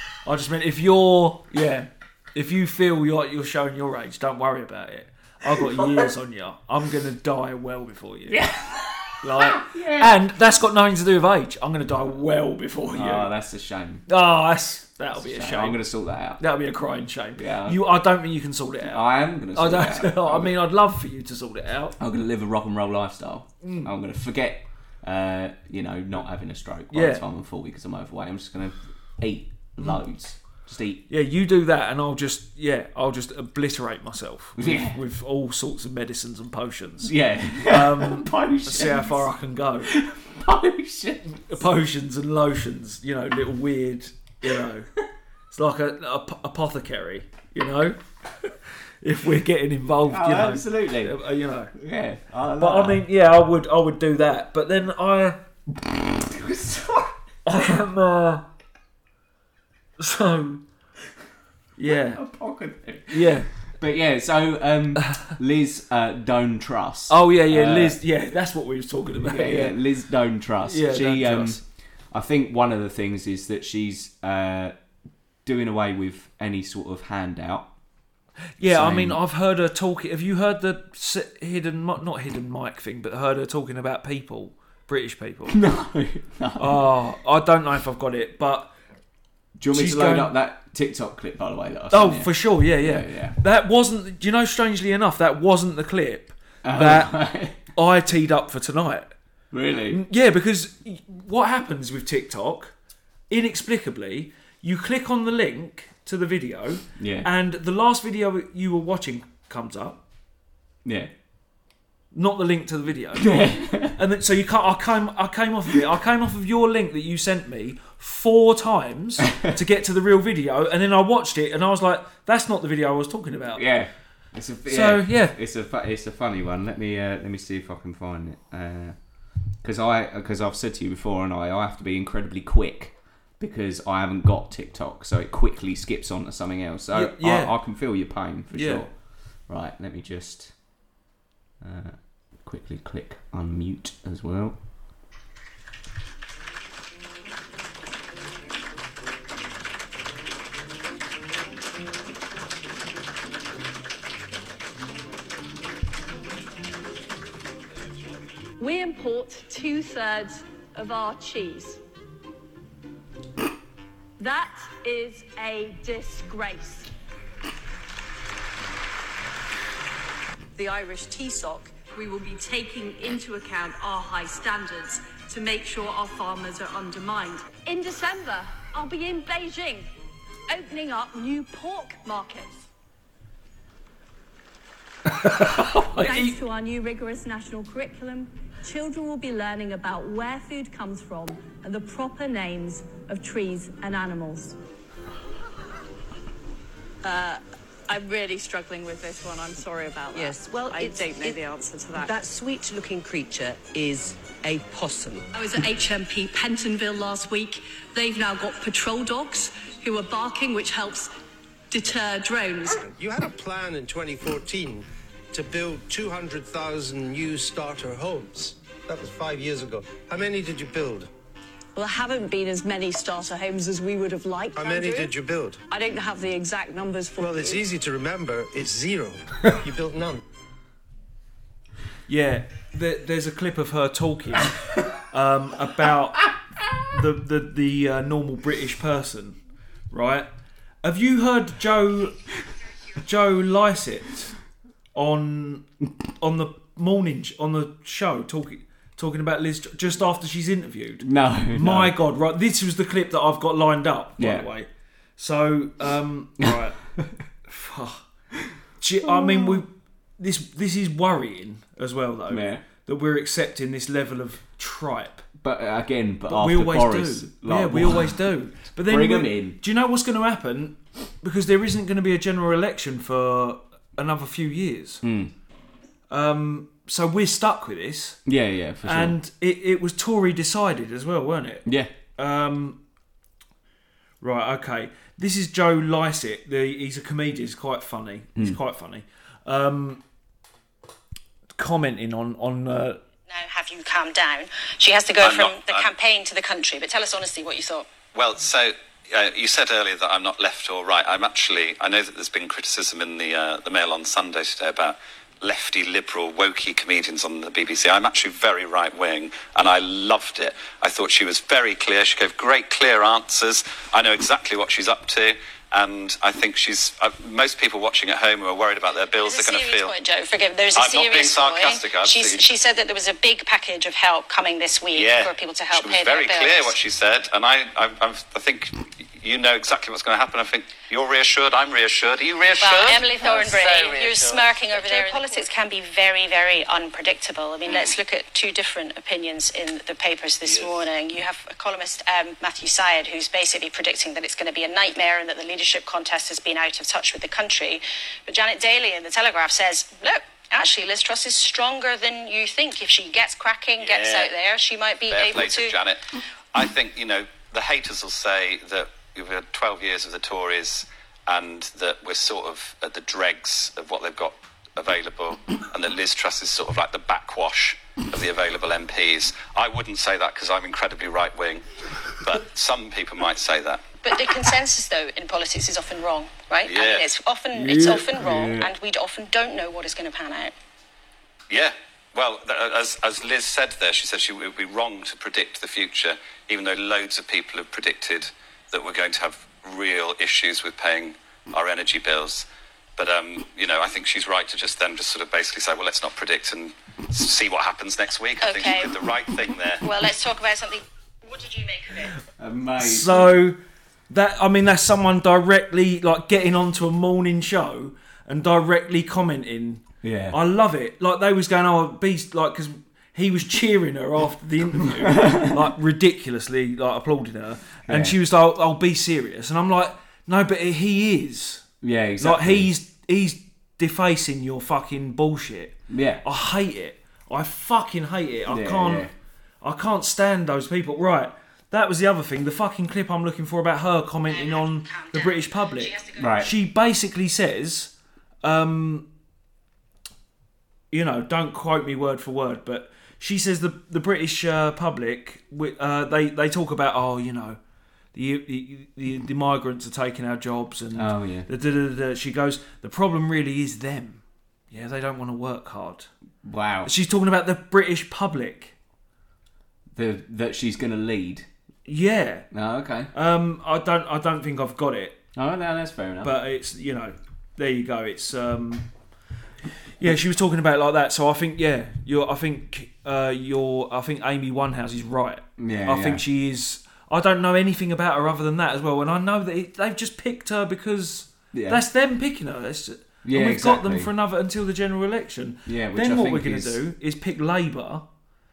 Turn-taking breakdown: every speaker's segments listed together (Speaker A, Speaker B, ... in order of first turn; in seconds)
Speaker A: 0.2-8.4, 9.2-13.3, 14.1-15.8, 16.4-21.9, 23.6-23.9, 26.9-27.2, 31.1-39.9, 41.3-44.9, 45.5-48.5, 49.0-51.7, 52.6-55.4, 57.4-58.5, 60.0-60.6, 61.8-62.2, 63.1-63.5, 67.1-69.8, 70.6-71.6, 78.6-85.6, 86.6-88.7, 89.7-90.3, 91.9-97.1, 97.6-99.1, 99.9-102.7, 103.3-110.0, 112.1-113.3, 113.9-123.6, 124.7-125.3, 136.9-137.5, 138.5-138.8, 185.1-186.4, 232.1-236.3, 236.9-239.4, 239.9-240.3, 240.8-242.2, 242.9-244.3, 244.9-245.6, 246.2-256.8, 257.4-258.0, 258.8-265.2, 266.3-275.0, 276.1-278.2, 278.8-282.8, 284.2-290.0, 291.6-293.0, 402.8-403.6, 404.1-421.6, 422.2-429.1, 429.6-439.1, 440.9-447.6, 448.1-456.1, 456.8-458.7, 461.9-462.5, 463.1-465.2, 466.2-468.9, 470.0-488.0
Speaker B: 5.6-6.1, 8.3-10.2, 12.9-14.0, 15.1-16.4, 17.4-17.8, 18.8-20.5, 22.0-31.0, 34.6-35.0, 37.0-39.2, 39.9-41.5, 50.0-51.2, 51.7-53.0, 56.0-57.1, 61.9-68.0, 69.2-74.7, 75.4-77.7, 78.6-79.2, 85.5-86.9, 89.6-93.4, 96.6-97.6, 99.5-100.0, 107.0-107.3, 110.8-111.1, 113.2-114.0, 123.5-129.0, 129.6-138.9, 139.5-140.5, 141.6-144.6, 251.0-251.9, 254.2-254.5, 256.4-257.1, 259.0-259.6, 262.3-262.6, 265.4-268.2, 268.8-269.6, 275.0-275.3, 278.2-279.1, 281.6-281.9, 377.5-378.7, 402.4-403.4, 410.0-410.4, 414.8-415.6, 417.9-418.1, 421.8-422.7, 425.9-426.2, 428.5-429.1, 436.1-436.5, 450.9-451.5, 456.4-456.9, 459.9-461.5, 462.5-463.1, 465.3-466.4, 475.6-476.2, 481.5-481.8, 483.2-484.1, 485.6-486.8
Speaker C: 158.6-161.8, 164.2-166.9, 170.6-179.9, 180.5-182.7, 185.9-194.6, 197.0-202.1, 205.3-211.1, 211.7-212.8, 221.7-225.1, 225.7-227.6
Speaker D: 200.1-205.3
Speaker E: 212.8-221.1, 224.5-225.6, 227.2-230.2
Speaker F: 293.3-297.9, 318.9-326.7, 332.6-355.8, 374.0-380.5, 398.4-399.0, 399.8-402.1
Speaker G: 295.2-295.9, 298.1-319.9, 320.7-322.4, 324.9-335.4, 340.4-340.8, 353.8-354.3, 355.1-356.0, 356.5-371.6, 372.2-373.9, 376.6-377.0, 381.5-399.9